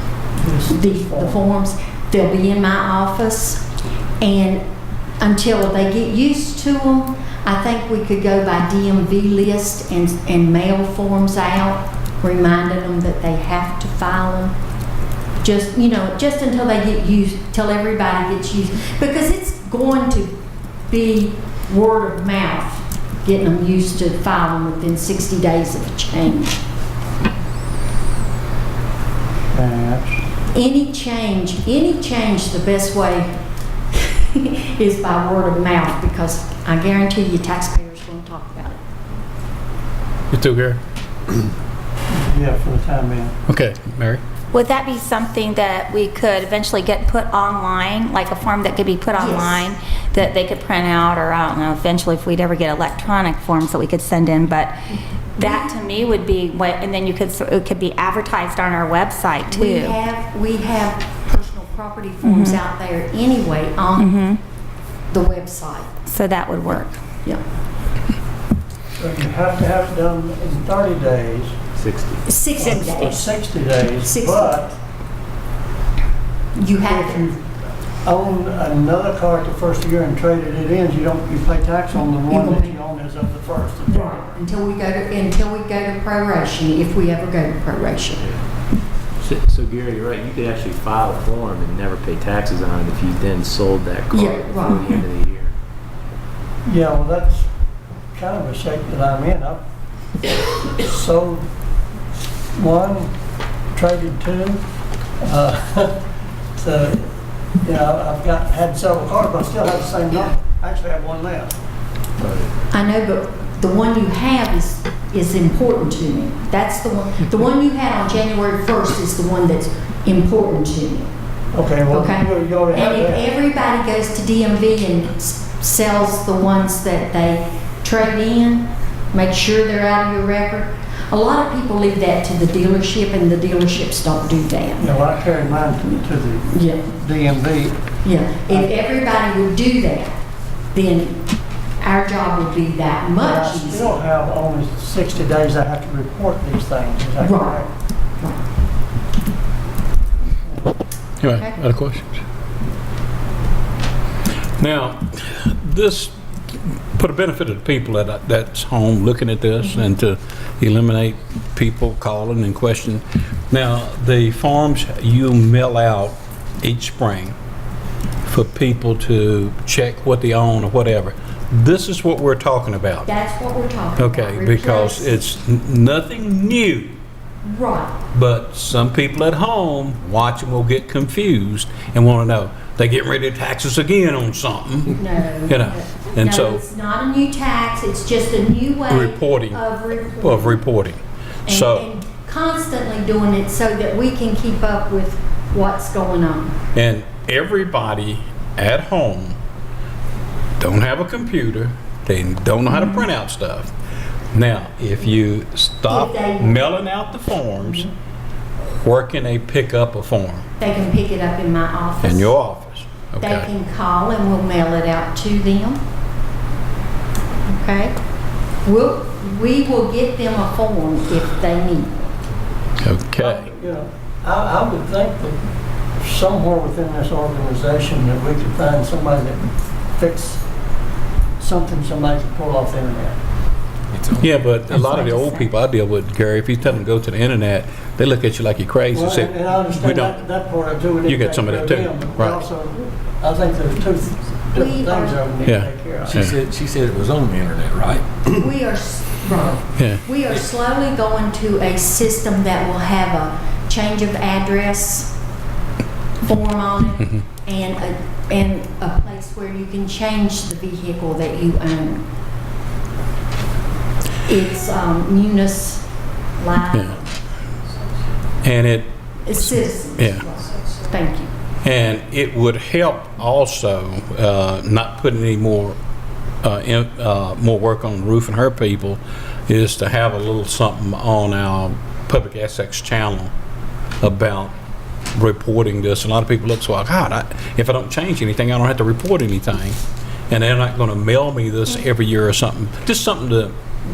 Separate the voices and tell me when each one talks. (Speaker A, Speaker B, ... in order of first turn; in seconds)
Speaker A: 0.3-1.4, 29.5-30.2, 42.1-43.3, 69.0-71.6, 72.6-74.7, 76.8-77.5, 78.0-84.4, 96.7-97.5, 98.1-99.6, 100.7-101.5, 102.5-103.1, 103.7-104.6, 105.2-106.0, 106.6-107.1, 107.6-111.5, 121.5-123.3, 134.8-137.9, 143.2-147.7, 150.4-150.7, 223.2-225.4, 226.0-230.4, 231.4-233.2, 238.9-246.3
Speaker B: 0.7-3.6, 4.2-4.6, 5.2-14.6, 15.4-20.4, 20.9-26.6, 30.5-33.3, 33.9-38.8, 49.2-49.7, 59.5-64.1, 65.1-66.0, 72.3-73.3, 74.0-74.7, 76.6-77.2, 82.3-82.8, 83.9-88.2, 94.1-95.0, 112.7-121.1, 121.9-134.9, 136.5-136.9, 138.0-140.2, 140.7-141.2, 141.8-143.9, 147.2-147.6, 173.1-175.2, 177.4-178.0, 185.0-190.6, 191.5-196.6, 205.9-206.6, 210.6-212.3, 213.2-215.8, 217.5-217.9, 218.6-222.0, 235.0-235.4, 244.5-245.2, 248.4-255.1, 256.2-262.0, 264.2-265.9, 266.4-267.1, 269.2-271.3
Speaker C: 40.3-40.8, 43.5-44.2, 151.2-152.1, 154.6-167.3, 168.2-173.1, 174.0-177.0, 178.1-186.6, 188.9-191.9, 196.7-199.3, 200.6-203.7, 204.3-207.9, 208.6-210.5, 212.0-213.5, 222.8-223.5, 234.2-240.2, 241.1-242.4, 245.4-246.4, 266.7-267.0, 268.4-270.3, 271.6-275.8, 276.4-283.3, 284.0-284.5, 285.1-289.8, 290.3-293.6
Speaker D: 44.5-54.7, 55.4-60.0, 62.2-62.6, 64.0-64.4, 66.1-67.0
Speaker E: 71.8-72.2, 89.2-95.5, 112.2-112.5
Speaker F: 234.0-234.3, 246.1-248.4